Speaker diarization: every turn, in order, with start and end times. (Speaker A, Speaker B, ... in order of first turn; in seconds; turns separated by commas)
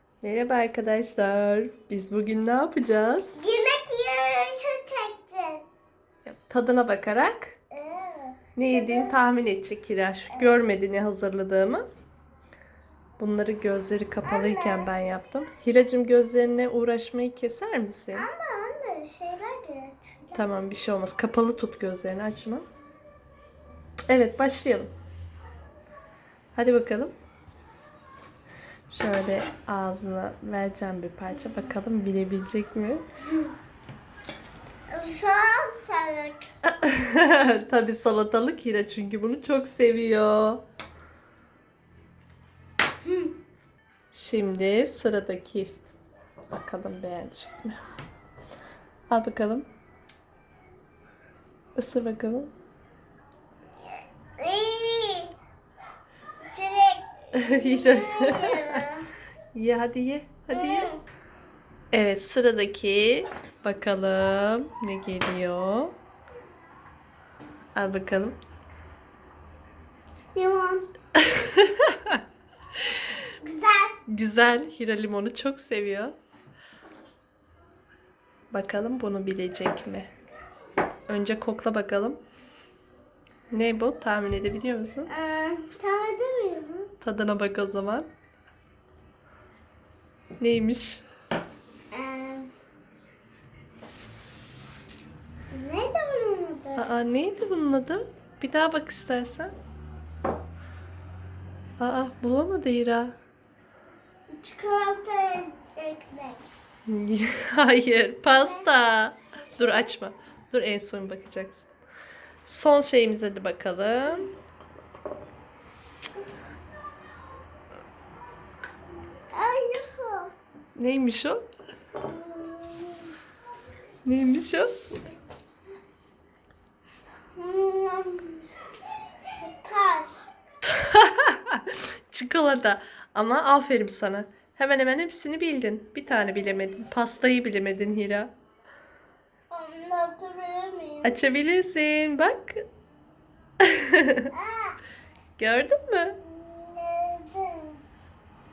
Speaker A: 0.2-3.4, Speaker B: 3.4-5.7, Speaker A: 6.2-7.5, Speaker B: 7.7-9.2, Speaker A: 8.6-11.8, Speaker B: 10.3-10.6, Speaker A: 13.2-18.3, Speaker B: 14.2-14.9, Speaker B: 18.1-20.4, Speaker A: 20.3-22.6, Speaker A: 24.1-24.9, Speaker A: 26.5-27.1, Speaker A: 28.9-33.0, Speaker B: 31.4-31.7, Speaker B: 34.9-36.5, Speaker A: 36.8-40.6, Speaker B: 43.0-43.3, Speaker A: 44.1-45.8, Speaker A: 46.5-47.8, Speaker A: 49.1-49.6, Speaker A: 51.8-52.5, Speaker B: 53.8-55.3, Speaker B: 56.5-59.1, Speaker A: 57.3-58.9, Speaker A: 59.5-60.9, Speaker B: 60.5-61.0, Speaker A: 61.9-65.9, Speaker A: 67.8-68.4, Speaker B: 70.3-70.8, Speaker A: 71.2-72.2, Speaker B: 73.4-74.0, Speaker A: 74.1-76.1, Speaker A: 78.5-80.1, Speaker A: 81.1-82.2, Speaker A: 83.5-85.1, Speaker B: 85.1-86.9, Speaker A: 87.0-88.1, Speaker A: 90.4-91.0, Speaker B: 91.9-92.5, Speaker B: 95.5-96.9, Speaker A: 96.8-99.5, Speaker A: 101.8-103.2, Speaker B: 104.3-106.5, Speaker A: 106.9-111.7, Speaker B: 108.3-108.7, Speaker A: 112.5-114.3, Speaker B: 119.3-120.3, Speaker A: 120.8-121.4, Speaker B: 122.0-123.1, Speaker A: 124.0-124.7, Speaker B: 127.3-128.4, Speaker B: 129.4-130.2, Speaker A: 130.7-138.3, Speaker B: 139.5-141.2, Speaker A: 141.0-142.6, Speaker A: 143.6-144.3, Speaker B: 144.3-144.8, Speaker A: 145.4-146.2, Speaker B: 146.2-147.8